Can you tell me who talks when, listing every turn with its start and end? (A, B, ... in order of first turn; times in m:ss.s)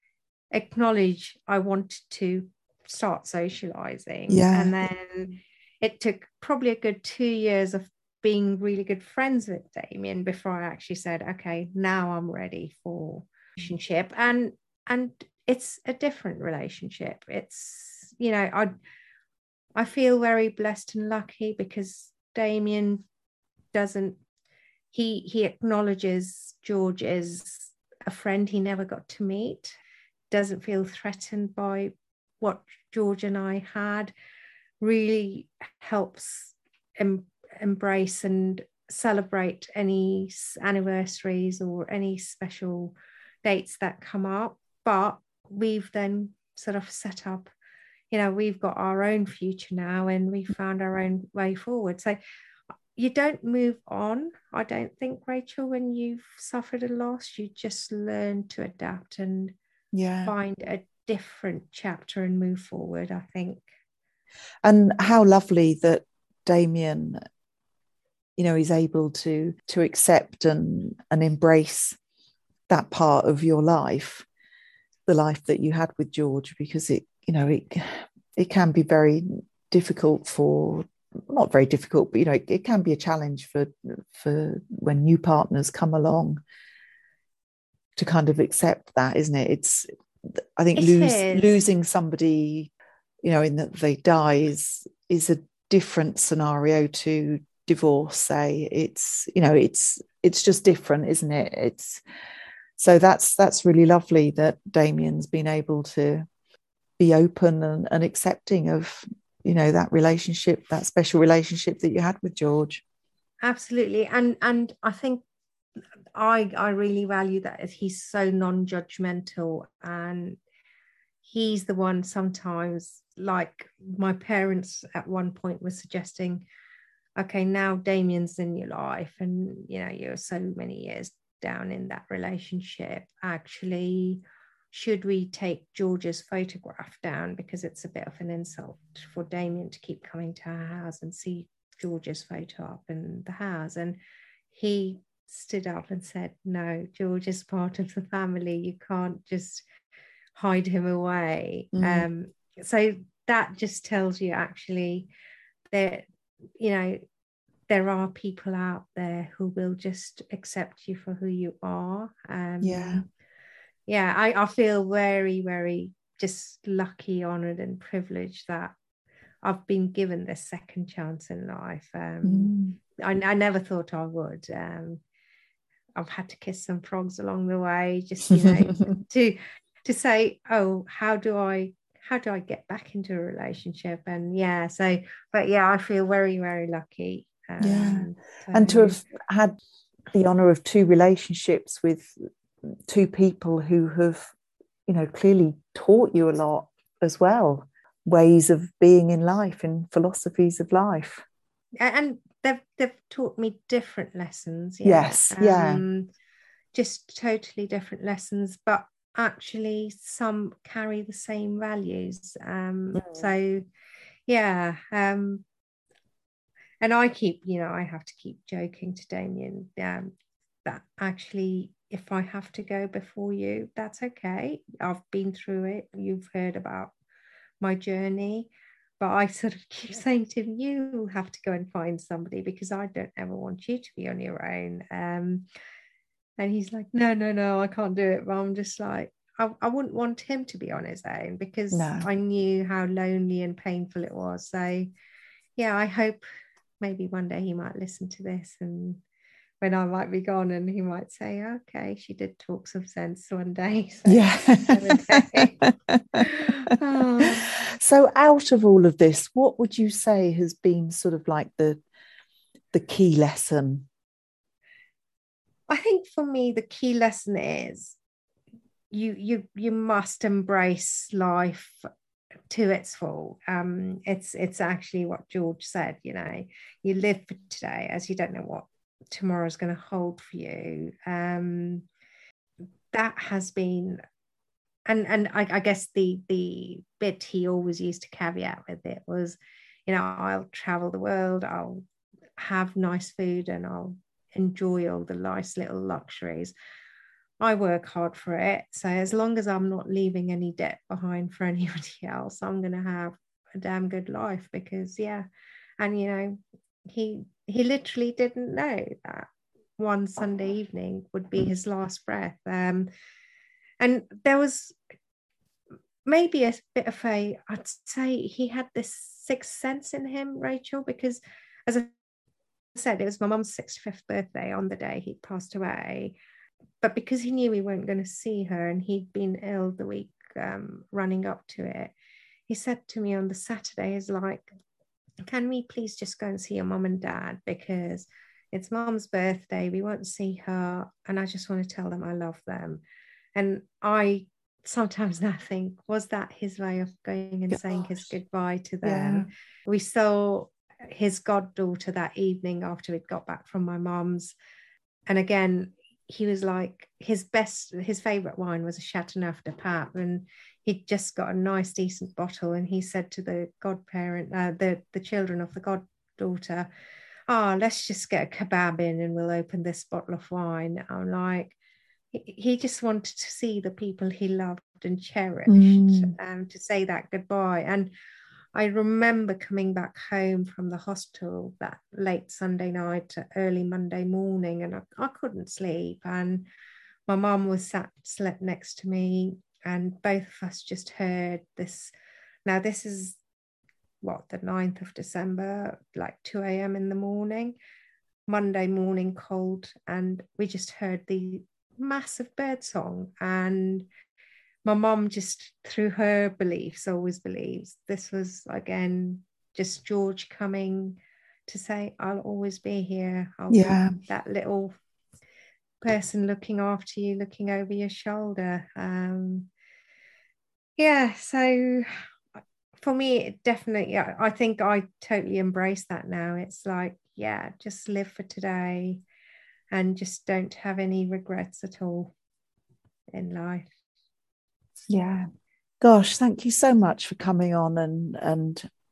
0:00.5-0:18.8 A
0:04.3-0:04.8 B
0:19.8-0:23.0 A
0:23.7-0:24.2 A
0:24.9-0:29.7 A
0:30.3-0:34.1 A
0:34.8-0:47.5 A
0:48.1-0:52.2 A
0:53.0-0:59.6 A
0:59.9-1:00.3 B
1:00.2-1:03.6 A
1:04.6-1:07.2 B
1:08.4-1:12.0 B
1:12.7-1:14.3 B
1:15.1-1:26.4 B
1:28.0-1:32.7 B
1:30.8-1:31.6 A
1:33.2-1:42.0 B
1:42.8-1:46.3 B
1:47.0-1:52.8 B
1:53.4-1:55.2 A
1:56.2-2:00.4 A
2:01.2-2:06.4 A
2:07.2-2:24.0 A
2:24.5-2:29.7 A
2:30.4-2:35.1 A
2:31.8-2:32.1 B
2:35.7-2:36.0 A
2:36.6-2:37.0 A
2:37.7-2:43.0 A
2:42.6-2:43.0 B
2:43.9-2:48.7 A
2:49.4-2:55.0 A
2:52.2-2:52.8 B
2:56.0-3:09.0 A
2:58.4-2:58.8 B
3:07.6-3:09.6 B
3:10.1-3:14.3 B
3:14.9-3:21.2 B
3:21.8-3:26.1 A
3:24.8-3:25.8 B
3:26.7-3:33.6 A
3:32.9-3:33.3 B
3:34.3-3:35.4 A
3:36.8-3:40.1 A
3:40.6-3:46.9 A
3:47.6-3:55.5 A
3:56.4-4:04.9 A
4:01.7-4:02.1 B
4:05.6-4:06.2 A
4:06.8-4:09.0 A
4:09.6-4:15.6 A
4:14.1-4:21.8 B
4:16.2-4:17.5 A
4:22.7-4:23.9 B
4:25.7-4:28.0 A
4:28.9-4:31.9 A
4:32.5-4:41.9 A
4:42.9-4:44.0 A
4:44.9-4:51.8 A
4:52.4-4:56.5 A
4:57.4-5:05.2 A
5:05.8-5:09.3 A
5:09.8-5:12.9 A
5:13.8-5:14.8 A
5:16.0-5:21.9 A
5:22.8-5:26.2 A
5:26.8-5:31.9 A
5:32.5-5:34.5 A
5:35.2-5:42.8 A
5:43.4-5:54.3 A
5:48.8-5:49.3 B
5:55.1-6:06.7 A
6:07.3-6:11.6 A
6:12.1-6:17.9 A
6:15.5-6:16.2 B
6:18.6-6:26.4 A
6:27.1-6:31.9 A
6:32.5-6:33.2 A
6:34.0-6:37.6 A
6:38.3-6:43.9 A
6:44.6-6:54.8 A
6:53.5-6:54.0 B
6:55.8-6:59.5 A
7:00.8-7:01.9 A
7:02.8-7:09.0 A
7:09.7-7:12.1 A
7:13.1-7:13.7 A
7:14.9-7:15.3 B
7:15.8-7:18.7 B